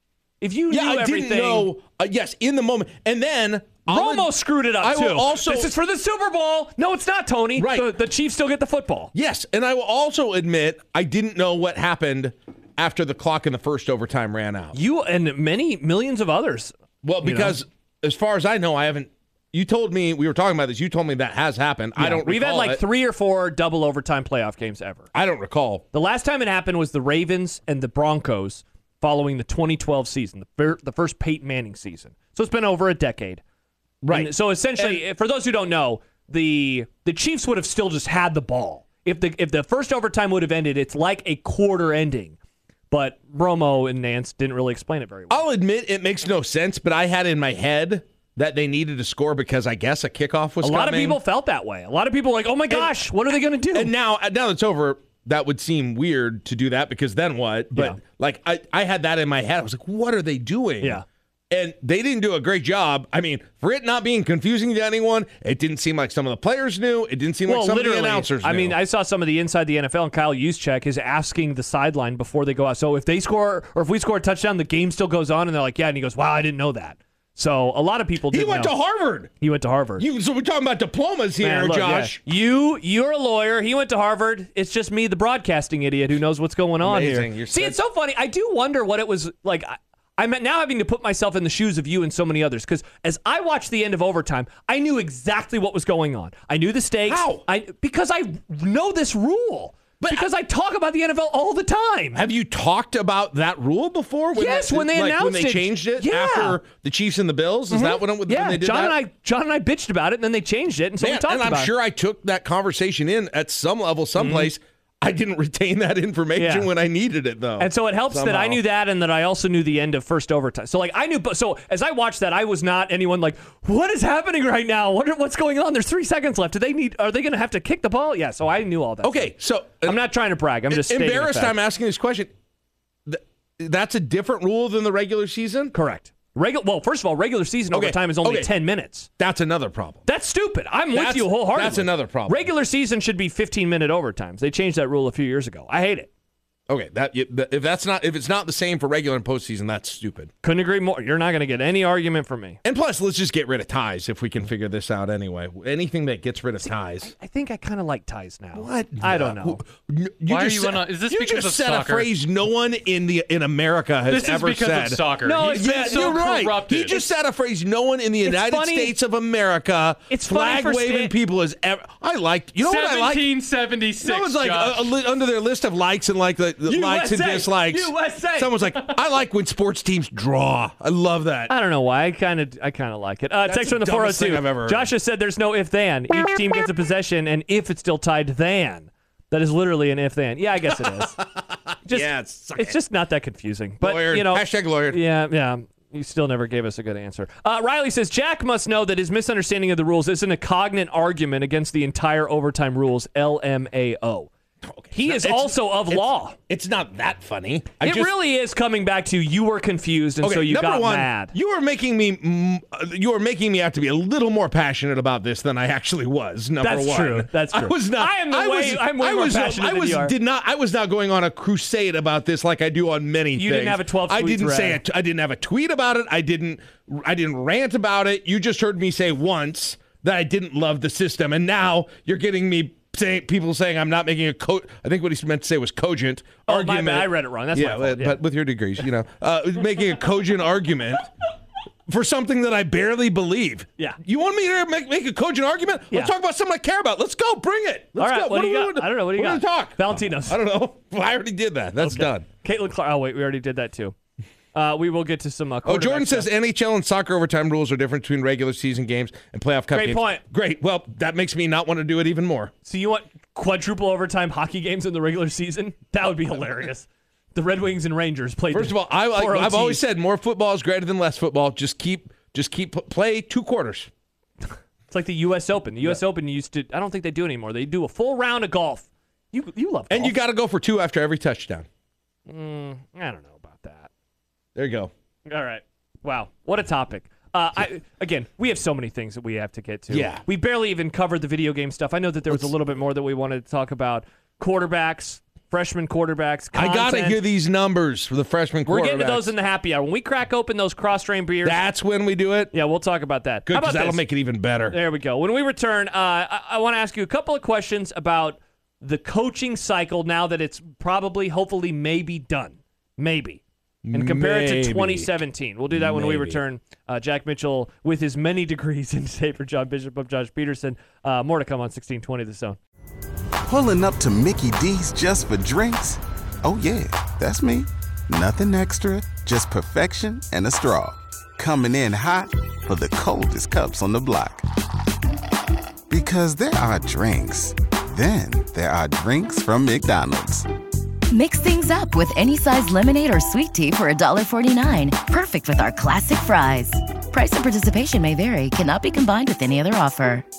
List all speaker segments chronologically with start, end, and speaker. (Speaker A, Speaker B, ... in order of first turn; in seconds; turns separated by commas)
Speaker A: 0.4-1.7, Speaker B: 0.7-5.7, Speaker A: 3.9-9.1, Speaker B: 7.6-7.9, Speaker B: 9.1-14.8, Speaker A: 14.7-17.6, Speaker B: 17.0-22.8, Speaker A: 22.0-25.1, Speaker B: 25.1-25.8, Speaker A: 25.9-33.4, Speaker B: 34.0-35.0, Speaker A: 34.1-42.4, Speaker A: 42.9-45.4, Speaker B: 45.3-51.2, Speaker A: 50.6-53.9, Speaker B: 52.7-53.1, Speaker B: 53.7-68.8, Speaker A: 57.7-58.0, Speaker A: 67.5-78.8, Speaker B: 78.3-79.3, Speaker A: 79.4-80.0, Speaker B: 80.0-82.2, Speaker A: 81.4-102.2, Speaker B: 86.8-87.8, Speaker B: 97.1-97.4, Speaker B: 100.0-100.3, Speaker B: 102.1-109.0, Speaker A: 104.3-106.6, Speaker A: 107.7-111.7, Speaker B: 111.0-118.6, Speaker A: 114.2-114.5, Speaker A: 116.3-116.7, Speaker A: 117.6-131.6, Speaker B: 129.0-130.0, Speaker B: 130.7-132.3, Speaker B: 133.1-135.7, Speaker A: 135.7-139.1, Speaker B: 137.7-138.5, Speaker B: 139.2-140.1, Speaker A: 140.1-146.1, Speaker B: 140.9-142.5, Speaker B: 146.7-150.3, Speaker A: 150.4-152.6, Speaker B: 152.6-157.1, Speaker A: 156.6-159.6, Speaker B: 158.5-173.3, Speaker C: 160.3-162.1, Speaker C: 164.1-167.1, Speaker A: 165.2-167.1, Speaker A: 168.2-168.9, Speaker A: 170.1-171.1, Speaker C: 172.6-174.9, Speaker B: 174.0-181.5, Speaker A: 176.6-178.8, Speaker A: 181.5-191.2, Speaker B: 183.4-184.9, Speaker B: 191.2-192.8, Speaker A: 191.8-204.3, Speaker B: 193.8-195.0, Speaker B: 204.6-208.1, Speaker A: 204.9-206.4, Speaker A: 207.8-211.3, Speaker B: 210.2-241.1, Speaker A: 216.6-220.1, Speaker A: 223.3-224.8, Speaker A: 236.4-238.2, Speaker B: 241.9-252.2, Speaker A: 248.0-250.4, Speaker A: 251.8-253.9, Speaker A: 254.5-256.3, Speaker B: 255.6-262.5, Speaker A: 259.7-260.2, Speaker A: 262.6-269.8, Speaker B: 268.5-273.9, Speaker A: 274.5-280.2, Speaker B: 279.9-281.7, Speaker A: 282.3-283.9, Speaker B: 284.6-284.9, Speaker A: 285.3-297.2, Speaker B: 289.9-290.2, Speaker B: 296.5-299.3, Speaker A: 298.6-301.6, Speaker B: 301.4-302.6, Speaker A: 302.5-304.1, Speaker B: 303.5-304.8, Speaker A: 304.7-322.6, Speaker B: 313.8-315.2, Speaker B: 315.7-316.4, Speaker D: 323.4-334.4, Speaker D: 335.9-340.4, Speaker E: 341.1-350.2